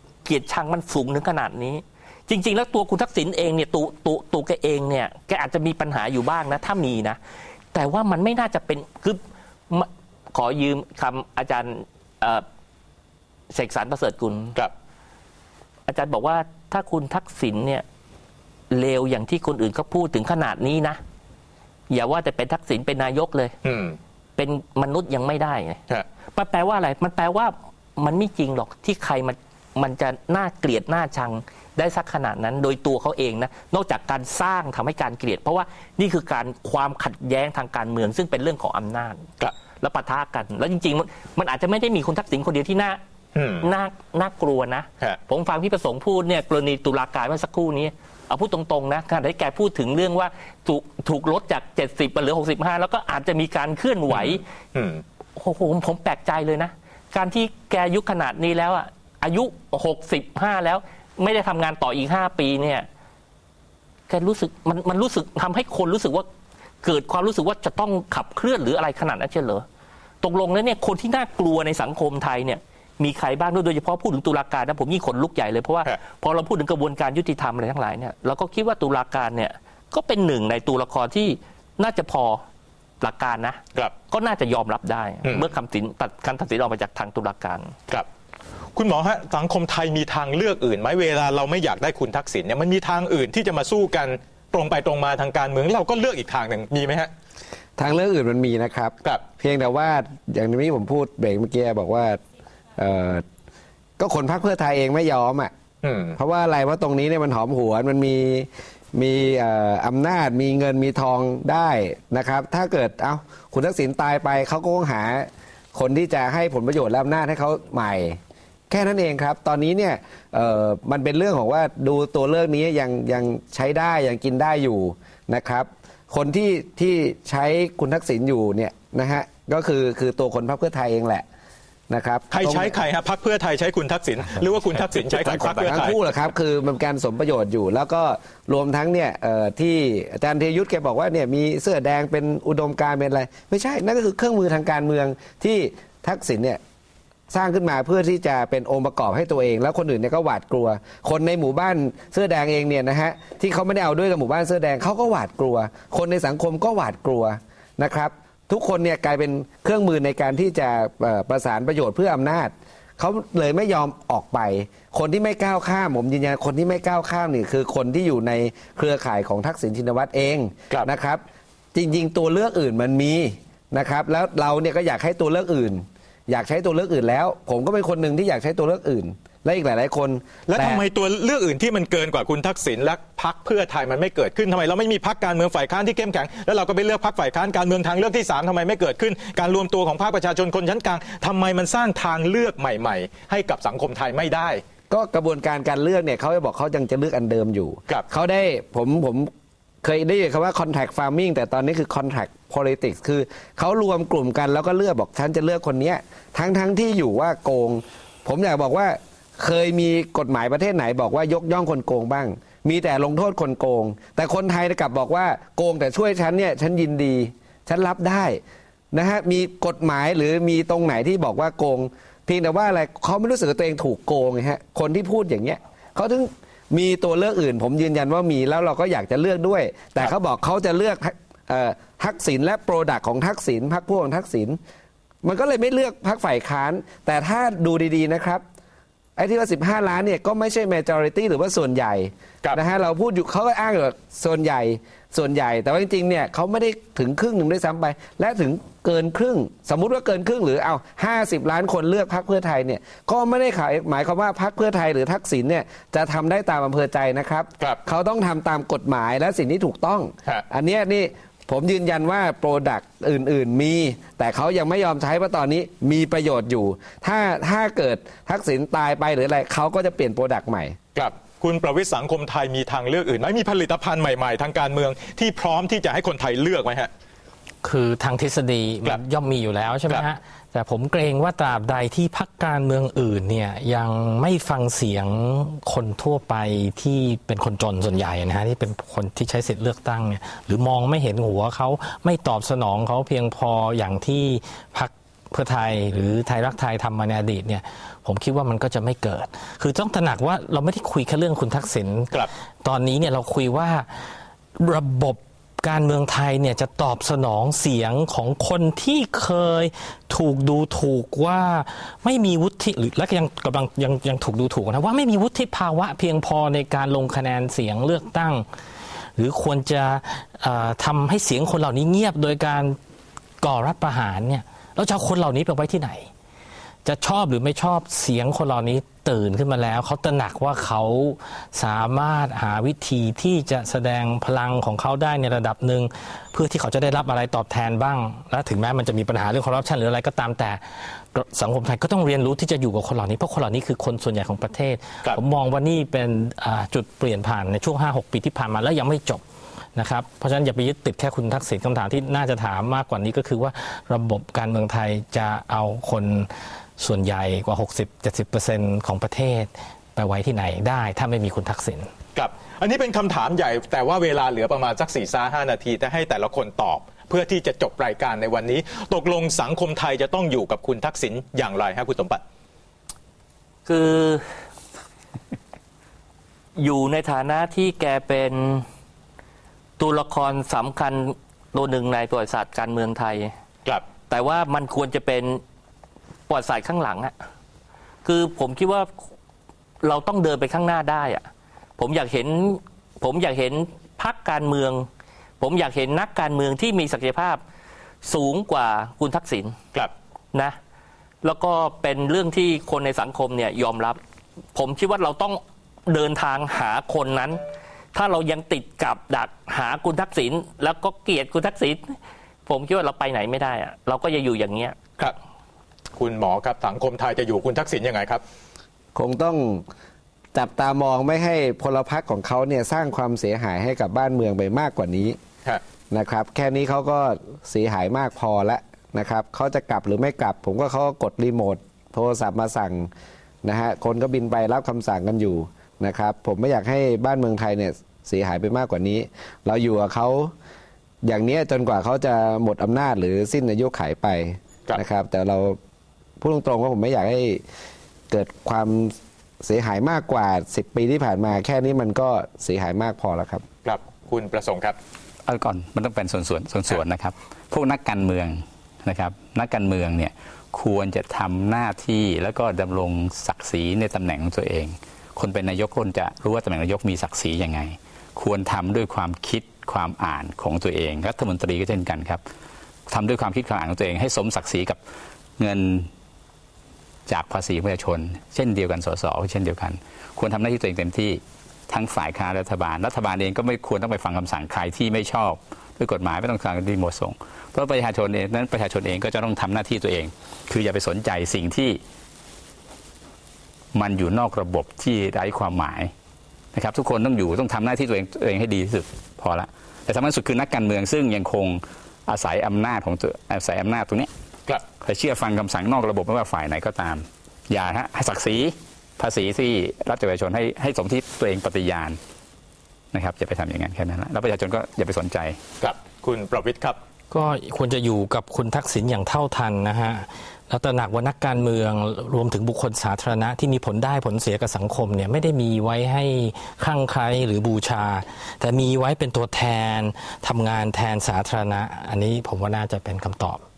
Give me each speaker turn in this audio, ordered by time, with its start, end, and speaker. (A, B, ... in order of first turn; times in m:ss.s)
0:00.2-0:07.2 A
0:07.7-0:12.4 A
0:13.5-0:14.6 A
0:15.9-0:17.8 A
0:18.7-0:21.0 A
0:21.9-0:23.6 A
0:23.6-0:24.0 B
0:24.4-0:25.8 A
0:26.4-0:39.3 A
0:39.8-0:43.0 A
0:43.4-0:43.7 B
0:43.6-0:54.4 A
0:54.1-0:55.0 B
0:55.4-1:02.9 A
1:04.1-1:06.2 A
1:06.8-1:09.6 A
1:10.2-1:22.4 A
1:23.0-1:27.8 A
1:25.2-1:25.5 B
1:28.8-1:37.1 B
1:37.8-1:42.2 C
1:42.8-1:43.2 C
1:44.0-1:45.5 C
1:45.8-1:46.2 B
1:46.2-1:58.2 C
1:58.7-2:11.2 C
2:11.9-2:12.7 C
2:12.3-2:16.0 B
2:15.0-2:26.6 C
2:27.3-3:00.8 C
3:00.5-3:14.6 B
3:14.9-3:19.3 C
3:19.8-3:38.4 C
3:38.9-3:54.6 C
3:55.2-3:58.4 C
3:59.2-4:30.8 C
4:31.0-4:36.9 B
4:37.6-5:02.1 D
5:02.6-5:04.0 D
5:04.6-5:18.5 D
5:19.2-5:22.8 D
5:23.4-5:26.1 D
5:26.8-5:49.2 D
5:49.8-6:01.9 D
6:02.2-6:12.2 B
6:13.7-6:14.2 A
6:16.6-6:18.7 A
6:19.8-6:23.3 A
6:24.1-6:25.4 A
6:26.3-6:27.1 A
6:28.0-6:28.9 A
6:29.8-6:31.3 A
6:31.8-6:34.9 A
6:35.4-6:37.4 A
6:38.0-6:39.6 A
6:41.2-6:44.0 A
6:44.5-6:47.4 A
6:47.9-6:54.8 A
6:56.0-6:58.2 B
6:59.0-6:59.6 C
7:00.3-7:05.2 C
7:05.9-7:12.9 C
7:13.4-7:20.3 C
7:21.0-7:25.6 C
7:26.2-7:27.4 C
7:28.1-7:33.4 C
7:33.6-7:34.8 B
7:35.2-7:52.2 E
7:52.9-7:54.8 E
7:55.4-7:55.9 E
7:57.1-8:11.8 E
8:13.7-8:15.9 E
8:16.5-8:24.1 E
8:24.8-8:32.0 E
8:32.9-8:35.4 E
8:35.6-8:36.8 B
8:37.1-8:53.4 D